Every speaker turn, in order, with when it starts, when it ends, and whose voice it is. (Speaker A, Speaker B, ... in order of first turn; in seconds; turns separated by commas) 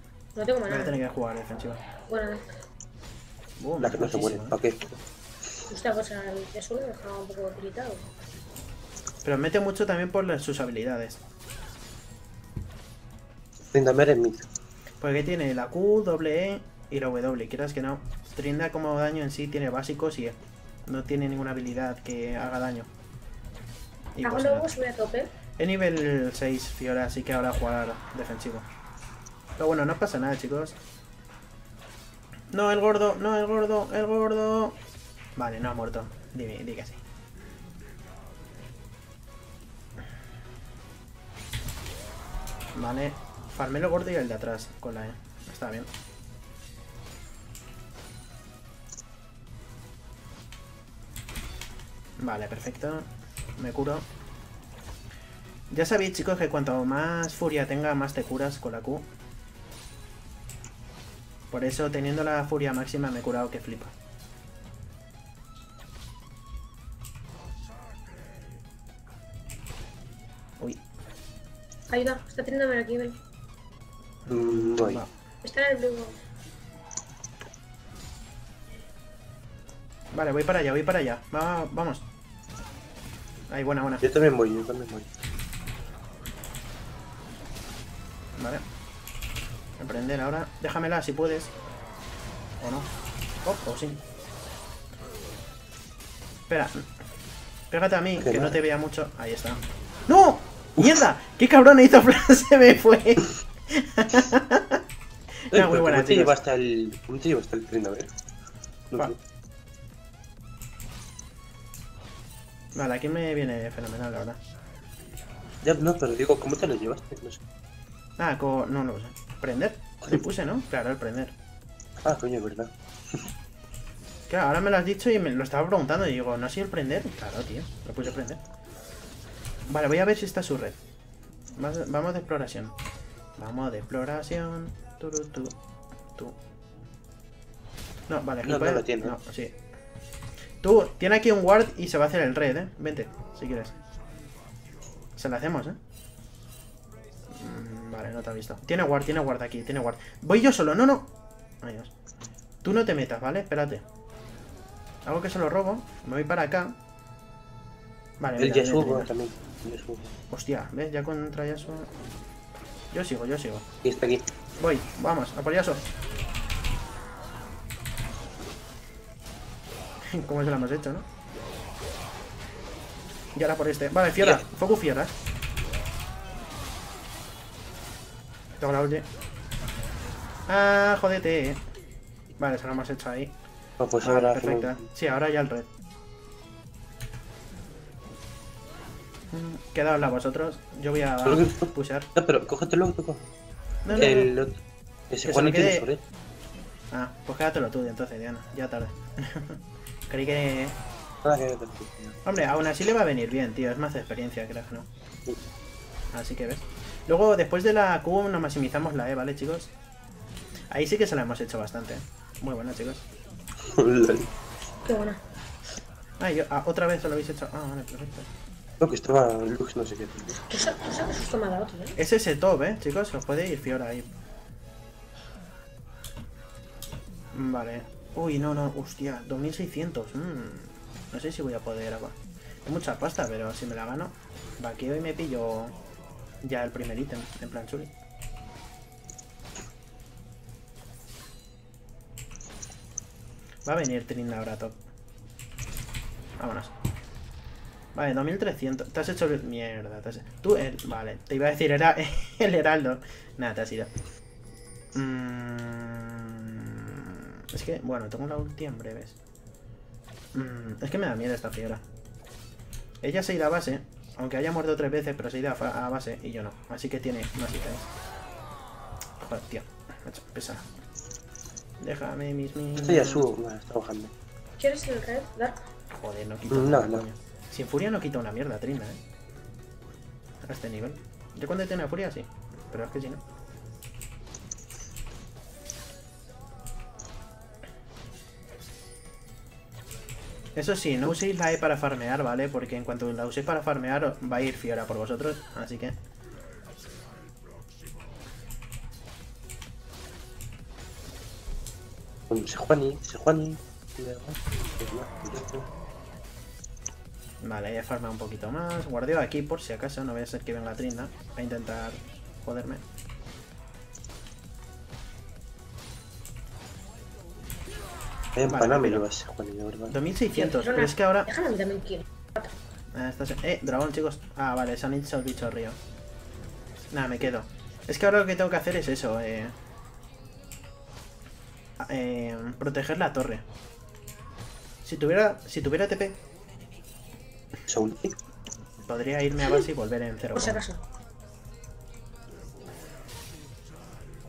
Speaker A: 0.3-1.0, Speaker B: 0.7-1.8, Speaker A: 2.1-2.5, Speaker B: 3.6-4.6, Speaker C: 3.8-5.0, Speaker A: 5.7-8.1, Speaker B: 9.2-11.2, Speaker C: 13.7-14.5, Speaker B: 15.0-22.9, Speaker B: 24.1-24.8, Speaker A: 24.2-25.3, Speaker B: 25.6-28.6, Speaker B: 29.6-30.8, Speaker B: 32.5-34.8, Speaker B: 35.4-37.0, Speaker B: 42.7-45.9, Speaker B: 52.2-54.1, Speaker B: 55.7-59.0, Speaker B: 61.5-63.9, Speaker A: 71.9-73.2, Speaker B: 74.2-75.1, Speaker C: 74.3-75.0, Speaker A: 75.4-76.2, Speaker B: 80.1-82.0, Speaker B: 83.5-84.0, Speaker C: 84.0-85.1, Speaker B: 88.3-88.6, Speaker B: 89.8-91.5, Speaker B: 92.6-92.9, Speaker B: 93.4-94.0, Speaker B: 96.5-96.9, Speaker B: 97.7-104.8, Speaker C: 98.2-98.6, Speaker B: 105.5-106.4, Speaker C: 105.5-108.1, Speaker C: 108.9-109.2, Speaker B: 112.7-114.4, Speaker C: 115.6-117.4, Speaker B: 118.2-121.3, Speaker C: 122.0-123.3, Speaker B: 124.3-128.4, Speaker B: 129.7-130.8, Speaker B: 131.5-132.7, Speaker B: 133.4-135.6, Speaker B: 138.1-139.5, Speaker C: 138.4-139.2, Speaker B: 140.6-143.7, Speaker B: 145.2-145.8, Speaker B: 147.3-151.9, Speaker B: 152.6-153.8, Speaker B: 155.0-156.7, Speaker B: 158.2-159.1, Speaker C: 158.4-160.1, Speaker B: 160.3-161.9, Speaker B: 162.9-163.7, Speaker C: 163.8-164.2, Speaker B: 164.6-165.9, Speaker B: 170.1-171.1, Speaker B: 173.3-175.1, Speaker B: 178.6-179.1, Speaker B: 180.5-181.6, Speaker B: 182.4-183.3, Speaker C: 183.8-184.8, Speaker B: 184.0-185.7, Speaker B: 189.3-192.1, Speaker C: 191.2-193.2, Speaker B: 193.8-194.3, Speaker A: 193.9-194.2, Speaker C: 193.9-194.6, Speaker C: 195.1-196.0, Speaker B: 195.2-195.9, Speaker B: 196.9-200.8, Speaker C: 201.2-202.2, Speaker B: 202.2-204.9, Speaker B: 206.1-209.7, Speaker B: 210.7-213.1, Speaker C: 213.6-214.3, Speaker A: 214.8-215.2, Speaker B: 216.2-218.3, Speaker C: 218.8-220.4, Speaker A: 220.5-222.0, Speaker B: 222.0-224.1, Speaker B: 227.3-235.8, Speaker B: 236.4-237.9, Speaker B: 243.6-244.8, Speaker B: 246.4-246.7, Speaker B: 247.9-253.9, Speaker B: 254.9-259.2, Speaker B: 260.3-261.8, Speaker B: 263.0-267.9, Speaker B: 269.2-270.7, Speaker B: 271.8-273.3, Speaker C: 272.8-274.1, Speaker A: 274.6-275.6, Speaker B: 275.9-279.0, Speaker C: 276.5-277.0, Speaker B: 280.4-283.2, Speaker B: 290.6-296.0, Speaker C: 302.3-305.7, Speaker B: 307.4-312.8, Speaker C: 318.4-320.0, Speaker B: 318.4-319.0, Speaker B: 319.9-321.3, Speaker A: 320.3-322.5, Speaker B: 322.9-325.8, Speaker B: 326.9-329.5, Speaker B: 331.8-333.4, Speaker B: 334.8-336.2, Speaker C: 337.7-338.1, Speaker B: 338.9-340.6, Speaker A: 340.3-340.8